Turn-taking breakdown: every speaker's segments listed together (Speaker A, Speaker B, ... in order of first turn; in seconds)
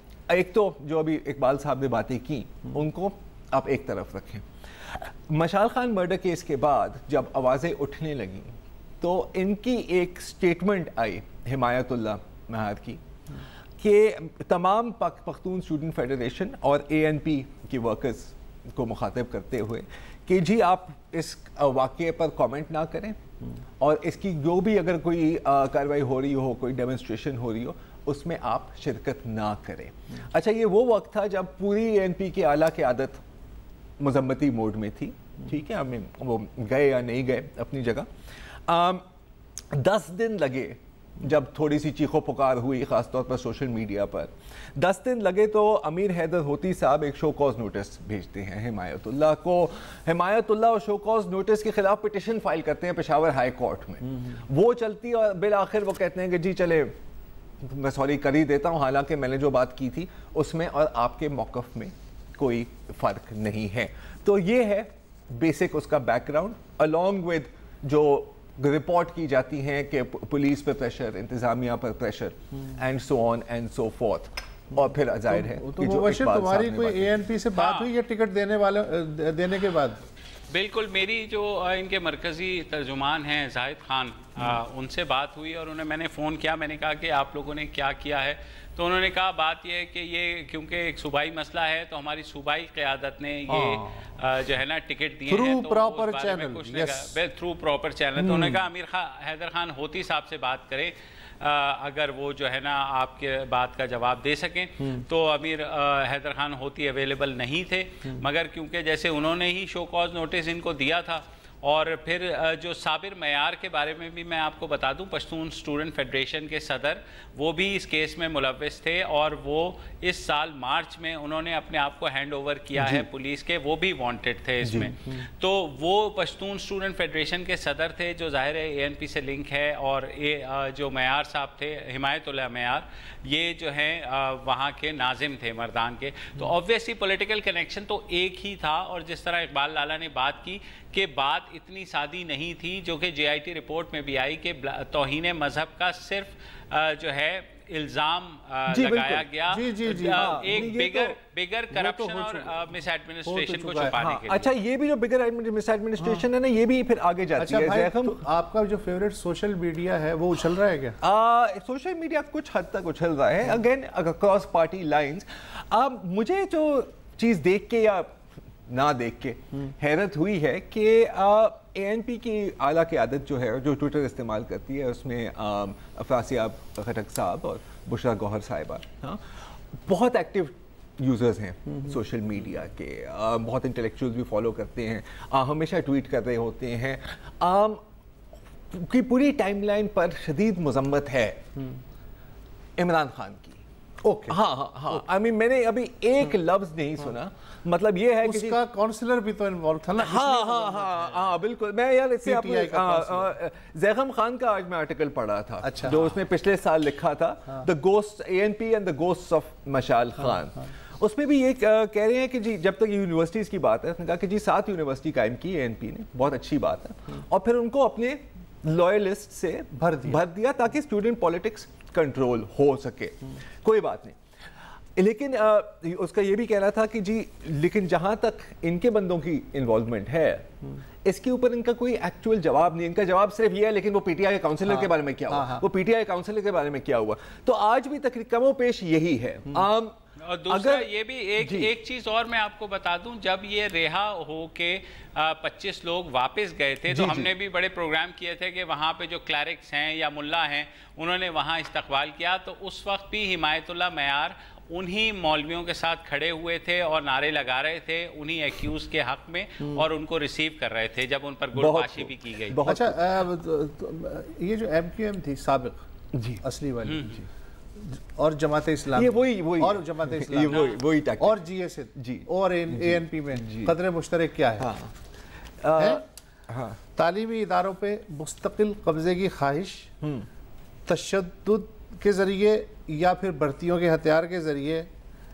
Speaker A: 0.3-13.0, 13.8-23.2, 23.8-33.2, 34.0-38.1, 38.7-39.0, 39.7-56.9, 57.6-77.2, 122.8-123.0, 124.6-124.9, 148.7-149.3, 150.0-151.2, 153.9-158.2, 161.0-187.8, 188.7-191.4, 192.8-193.6, 194.3-198.6, 199.9-224.2, 224.9-240.0, 240.5-240.9, 241.4-241.7, 246.9-247.3, 261.6-263.0, 266.1-266.4, 267.0-267.2, 268.9-271.4, 271.9-273.7, 274.6-274.9, 275.6-276.8, 280.0-280.3
Speaker B: 75.3-80.0, 93.5-94.0, 95.3-97.1, 98.2-98.6, 149.5-150.7, 151.7-152.5, 153.2-153.9, 157.4-161.0, 194.0-194.4, 198.2-201.2, 202.2-203.3, 205.6-206.1, 219.8-220.2, 234.7-235.6, 262.6-265.9, 266.4-267.2, 267.8-274.7, 275.8-276.0, 276.9-279.9, 280.9-284.9
Speaker C: 77.5-77.9, 80.5-154.5, 240.2-262.6, 270.5-270.8